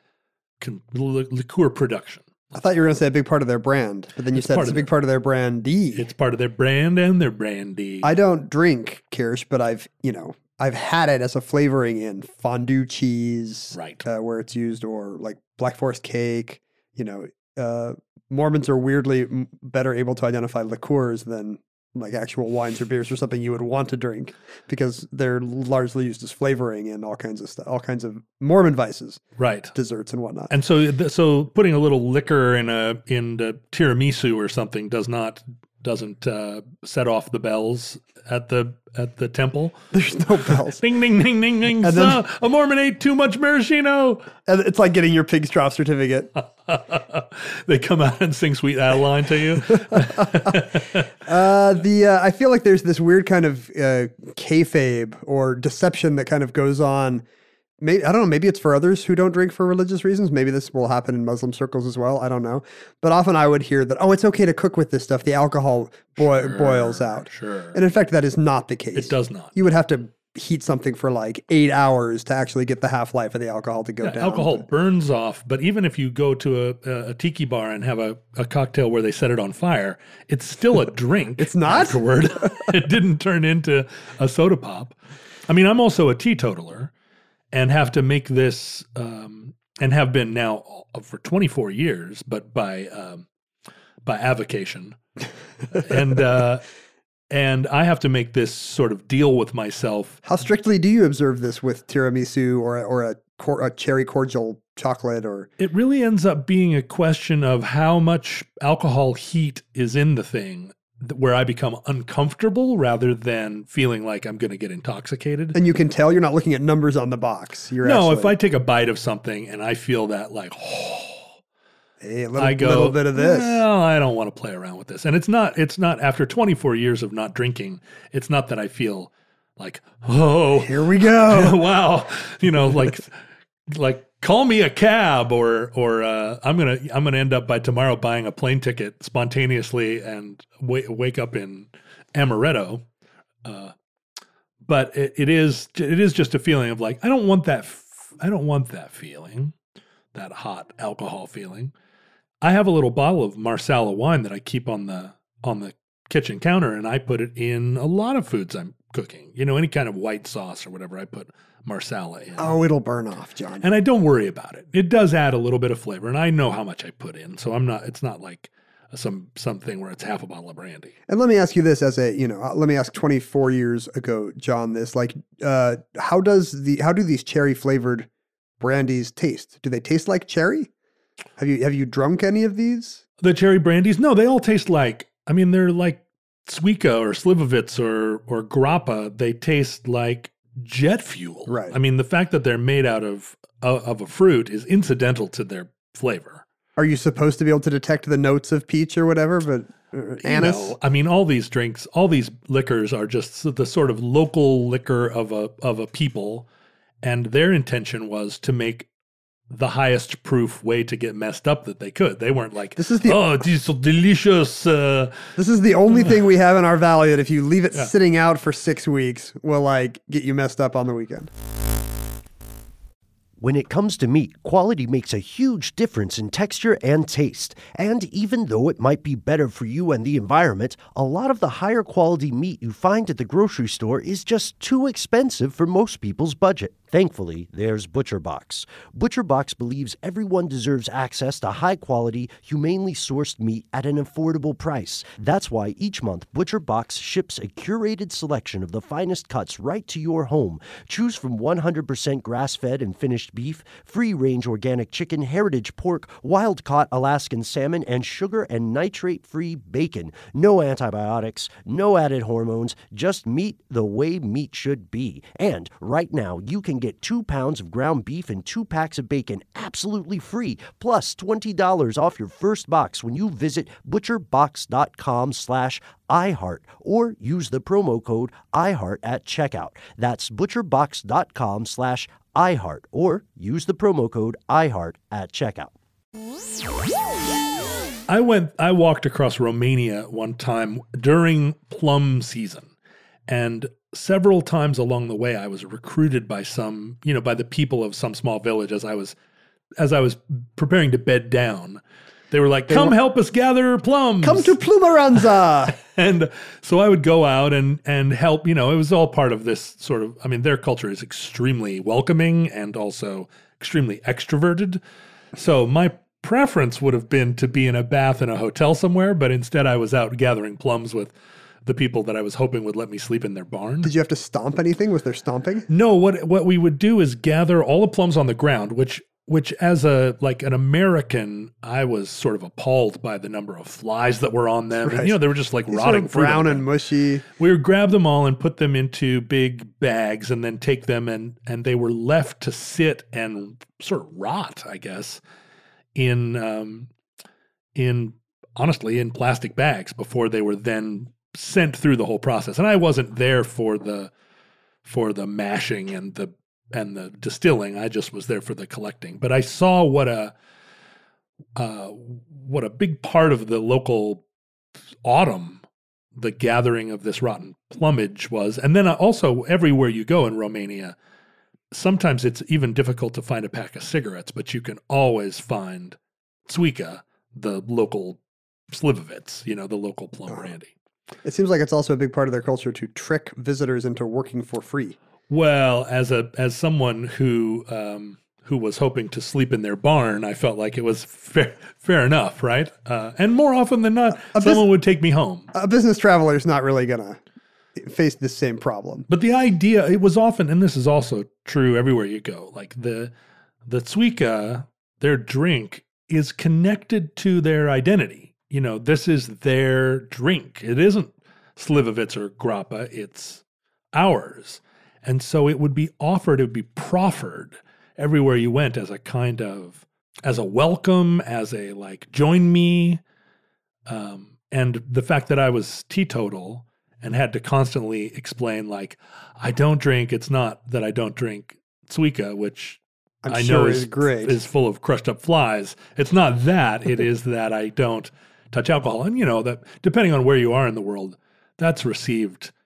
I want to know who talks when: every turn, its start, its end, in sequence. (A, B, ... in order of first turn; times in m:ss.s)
0:00.6-0:02.4 A
0:02.5-0:06.1 B
0:04.3-0:04.9 A
0:06.0-0:08.1 A
0:08.0-0:30.5 B
0:13.7-0:14.1 A
0:29.4-0:29.8 A
0:30.5-0:39.8 A
0:39.9-0:40.8 B
0:40.7-0:44.3 A
0:41.8-0:42.2 B
0:44.5-0:46.3 B
0:46.4-0:51.1 A
0:49.9-0:50.6 B
0:51.2-0:57.2 B
0:57.8-1:14.7 B
1:06.2-1:07.8 A
1:09.0-1:09.5 A
1:14.0-1:26.9 A
1:21.4-1:22.7 B
1:27.5-1:33.3 A
1:34.0-1:35.0 A
1:35.7-1:36.6 A
1:37.3-1:40.2 A
1:40.2-1:45.5 B
1:45.6-1:55.6 A
1:55.5-1:58.3 B
1:57.8-2:01.4 A
2:02.0-2:03.6 B
2:02.4-2:13.1 A
2:10.6-2:11.6 B
2:13.7-2:22.8 A
2:23.4-2:23.7 A
2:24.6-2:29.5 A
2:30.1-2:31.7 A
2:32.4-2:42.6 A
2:42.4-2:43.7 B
2:43.6-2:51.0 A
2:51.1-2:58.1 B
2:58.6-3:00.7 B
3:01.4-3:03.0 B
3:03.2-3:16.4 A
3:11.5-3:11.8 B
3:16.8-3:20.8 B
3:20.2-3:26.5 A
3:27.0-3:28.9 A
3:29.5-3:35.4 A
3:32.8-3:33.4 B
3:35.4-3:41.3 B
3:43.4-4:45.8 C
4:48.1-4:52.7 A
4:53.3-4:59.2 A
4:59.8-5:01.8 A
5:02.3-5:04.6 A
5:02.7-5:03.0 B
5:04.2-5:05.8 B
5:05.8-5:14.8 A
5:15.4-5:21.1 A
5:21.6-5:23.9 A
5:23.8-5:25.7 B
5:25.7-5:36.7 A
5:34.8-5:37.2 B
5:37.4-5:45.2 A
5:46.0-5:46.9 A
5:47.8-5:54.1 A
5:54.8-6:00.3 A
6:01.6-6:04.2 A
6:05.0-6:05.6 A
6:06.2-6:11.0 A
6:11.7-6:18.2 A
6:18.7-6:20.7 A
6:21.2-6:25.0 B
6:25.3-6:35.5 A
6:34.2-6:34.7 B
6:35.5-6:37.2 B
6:37.8-6:39.1 B
6:39.1-6:43.1 A
6:43.7-6:53.4 A
6:53.9-7:03.0 A
7:03.9-7:22.5 A
7:13.2-7:14.4 B